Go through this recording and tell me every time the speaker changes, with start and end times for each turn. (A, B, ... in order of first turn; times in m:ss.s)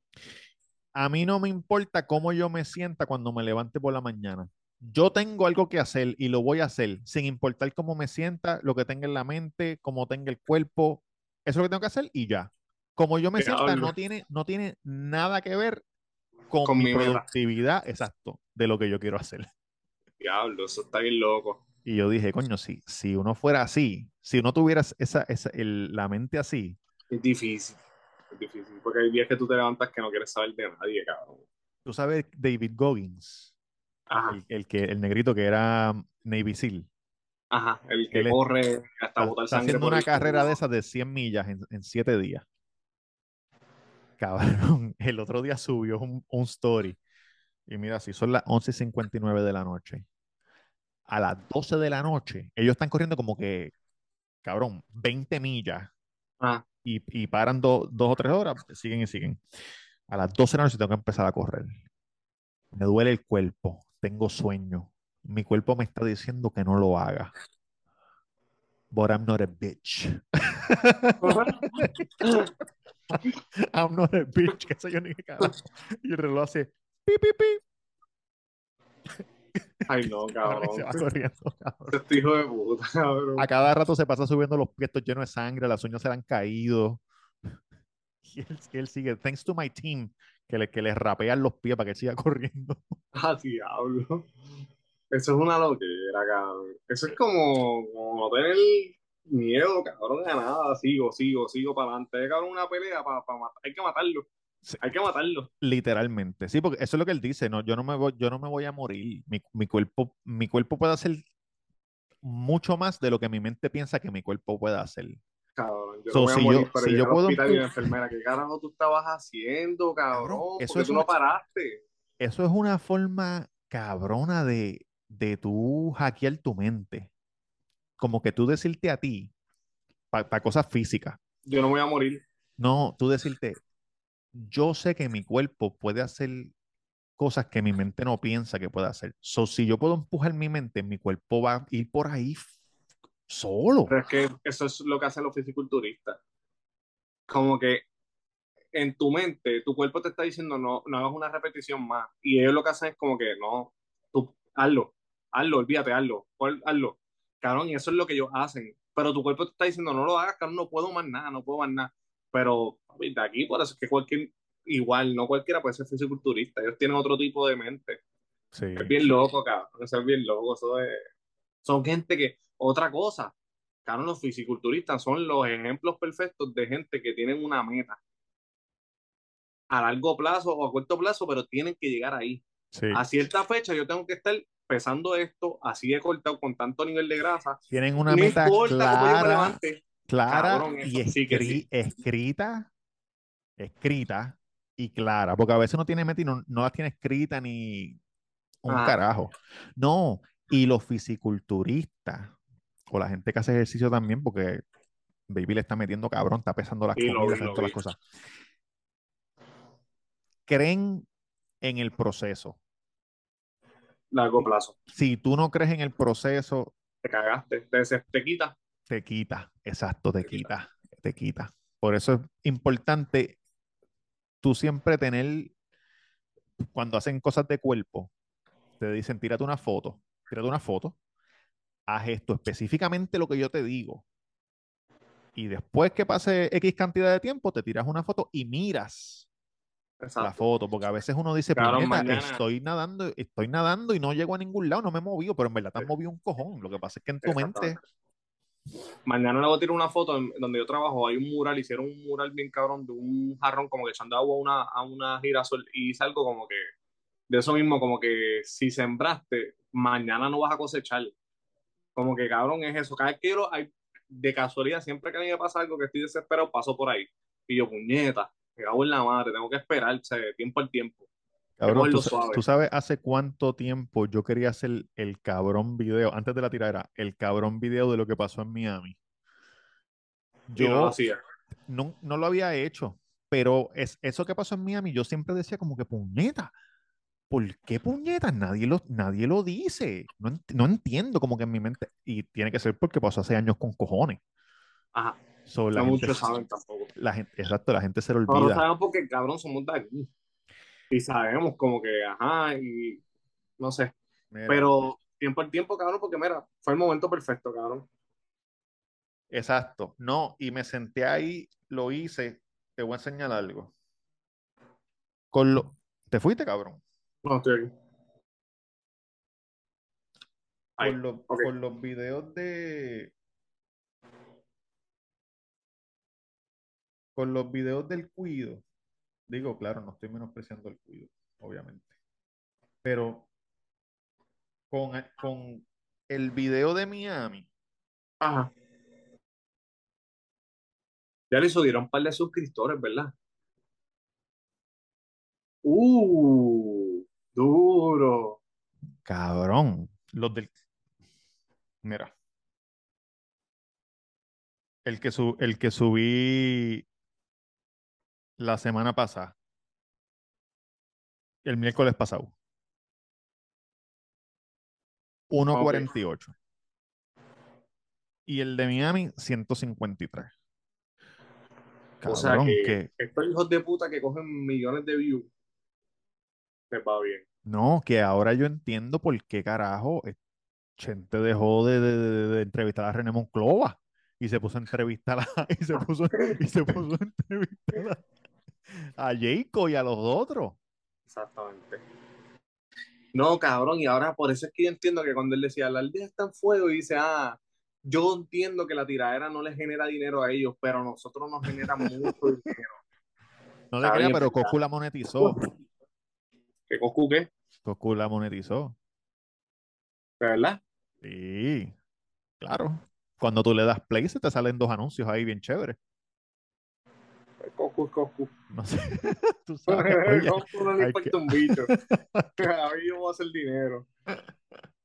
0:01.0-0:15.8 A
0:13.4-0:13.9 B
0:16.5-0:19.5 A
0:16.6-0:17.2 B
0:20.2-0:21.6 B
0:21.8-0:26.8 A
0:27.1-0:27.8 B
0:28.3-0:31.4 B
0:31.8-0:33.5 A
0:34.1-0:34.4 B
0:34.3-0:36.9 A
0:37.5-0:40.5 B
0:38.1-0:38.4 A
0:39.2-0:42.4 A
0:44.2-0:47.0 A
0:47.7-0:50.1 A
0:51.1-0:53.7 A
0:54.4-0:55.9 A
0:56.8-0:59.4 A
1:00.1-1:01.8 A
1:02.7-1:07.3 A
1:08.9-1:12.5 A
1:11.2-1:12.5 B
1:13.1-1:17.6 A
1:19.9-1:21.0 B
1:20.0-1:22.0 A
1:21.9-1:23.5 B
1:23.4-1:27.0 A
1:28.2-1:33.0 A
1:33.2-1:34.3 B
1:35.1-1:44.3 B
1:44.8-1:45.5 B
1:45.6-1:51.2 A
1:52.2-1:55.2 A
1:55.6-2:01.8 B
1:56.1-1:57.7 A
2:00.1-2:01.1 A
2:02.2-2:07.1 A
2:08.0-2:09.3 A
2:10.1-2:11.2 A
2:11.5-2:12.2 B
2:12.6-2:13.6 A
2:14.4-2:16.5 A
2:17.2-2:22.5 A
2:23.3-2:23.9 A
2:23.9-2:26.2 B
2:27.3-2:27.8 B
2:28.7-2:48.0 B
2:48.5-2:48.9 A
2:48.8-2:51.0 B
2:51.6-2:53.3 B
2:53.8-2:58.0 B
2:59.7-3:02.4 B
3:02.7-3:03.0 A
3:02.9-3:07.6 B
3:07.7-3:12.7 A
3:08.1-3:11.6 B
3:13.6-3:18.0 A
3:18.6-3:22.3 A
3:18.7-3:19.0 B
3:22.9-3:24.6 A
3:25.3-3:28.0 A
3:27.0-3:27.8 B
3:30.5-3:31.0 A
3:31.6-3:32.6 A
3:34.1-3:34.8 B
3:34.4-3:36.7 A
3:37.0-3:38.6 B
3:38.9-3:43.4 A
3:44.4-3:45.5 A
3:46.7-3:48.1 A
3:48.8-3:51.0 A
3:51.9-3:54.0 A
3:55.4-3:59.3 A
4:00.0-4:00.4 B
4:00.2-4:07.8 A
4:01.6-4:02.4 B
4:07.2-4:07.8 B
4:09.1-4:16.6 B
4:17.3-4:21.1 B
4:22.0-4:31.0 B
4:31.6-4:39.0 A
4:31.7-4:32.4 B
4:40.5-4:41.0 A
4:40.6-4:41.2 B
4:41.7-4:46.5 A
4:47.3-4:54.2 A
4:54.9-4:55.2 B
4:55.5-4:56.3 A
4:55.8-4:56.9 B
4:57.0-4:58.6 A
4:58.3-5:00.1 B
5:00.9-5:03.0 B
5:03.6-5:04.0 B
5:04.3-5:04.7 A
5:04.5-5:07.9 B
5:09.3-5:13.7 A
5:15.3-5:16.8 A
5:17.2-5:17.7 B
5:20.8-5:21.5 B
5:20.8-5:23.1 A
5:27.2-5:28.6 A
5:29.3-5:31.9 A
5:32.8-5:33.3 A
5:34.7-5:37.5 A
5:38.2-5:38.5 B
5:41.3-5:43.1 B
5:45.6-5:48.4 B
5:49.0-5:50.5 A
5:51.8-5:52.1 A
5:54.8-5:56.8 A
5:58.4-5:59.4 A
6:01.4-6:02.3 A
6:05.3-6:06.3 A
6:05.5-6:05.9 B
6:08.3-6:10.3 A
6:12.0-6:12.9 A
6:12.0-6:15.3 B
6:16.7-6:17.2 B
6:17.5-6:20.2 A
6:20.8-6:28.0 A
6:28.7-6:30.6 A
6:31.1-6:31.8 B
6:33.1-6:42.8 B
6:43.7-6:45.4 A
6:43.8-6:44.5 B
6:45.2-6:45.5 B
6:46.7-6:47.3 B
6:47.6-6:48.8 A
6:50.2-6:50.6 B
6:51.0-6:51.7 A
6:52.4-6:55.8 A
6:57.4-6:58.3 B
6:58.5-7:02.3 A
6:59.7-7:01.7 B
7:02.4-7:03.9 B